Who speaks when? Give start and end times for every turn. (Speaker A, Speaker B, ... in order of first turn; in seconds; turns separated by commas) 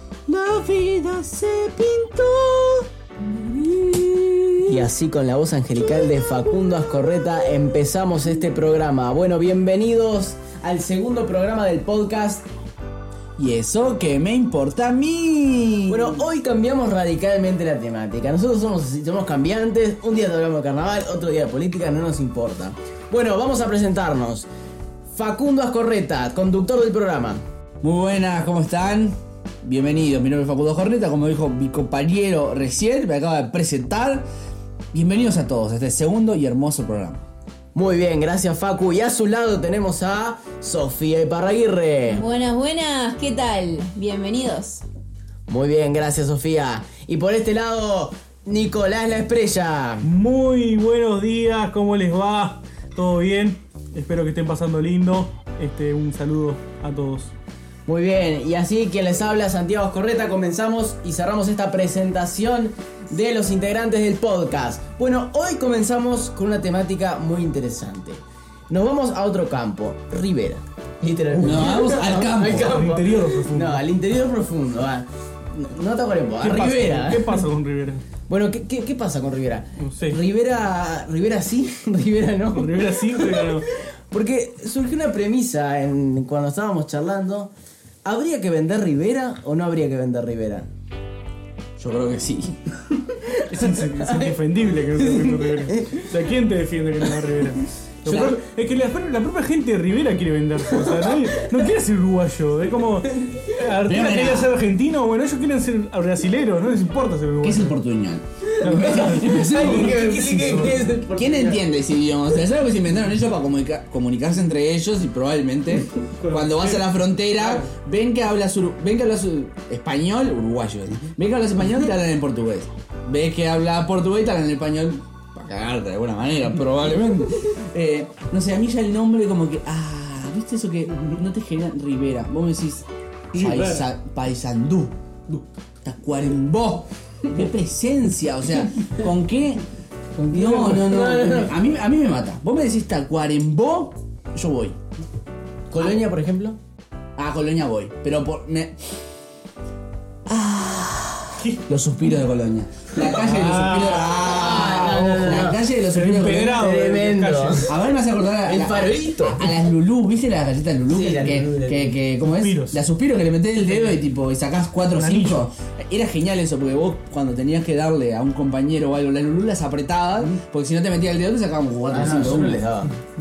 Speaker A: 0.3-4.9, Speaker B: 4.7-12.4, Speaker A: 5.8-6.6, Speaker A: 13.4-16.2, Speaker B: 15.9-24.5, Speaker B: 25.1-27.4, Speaker A: 27.8-34.3, Speaker A: 34.9-37.2, Speaker B: 37.7-42.2, Speaker C: 42.1-44.8, Speaker B: 45.5-50.1, Speaker D: 50.0-57.3, Speaker B: 57.9-77.4, Speaker A: 71.4-72.7, Speaker D: 72.6-73.8, Speaker D: 76.4-78.0, Speaker B: 78.3-87.5, Speaker D: 79.8-80.2, Speaker D: 82.5-83.7, Speaker B: 88.0-90.7, Speaker A: 91.8-92.7, Speaker B: 93.2-96.1, Speaker D: 93.5-107.8, Speaker A: 98.0-98.4, Speaker B: 100.8-101.3, Speaker A: 103.8-104.5, Speaker A: 107.4-134.9, Speaker B: 108.5-111.6, Speaker D: 108.6-110.8, Speaker D: 116.2-116.8, Speaker D: 117.4-117.7, Speaker D: 133.4-133.8, Speaker A: 135.8-139.6, Speaker B: 140.1-141.6, Speaker A: 140.3-144.8, Speaker B: 145.7-146.6, Speaker A: 147.2-148.8, Speaker A: 150.3-156.7, Speaker D: 153.0-154.4, Speaker B: 153.1-155.6, Speaker D: 155.9-157.7, Speaker B: 156.5-157.7, Speaker A: 157.7-172.6, Speaker B: 158.4-159.5, Speaker B: 160.9-161.9, Speaker D: 162.3-162.8, Speaker D: 164.9-165.5, Speaker B: 171.9-172.9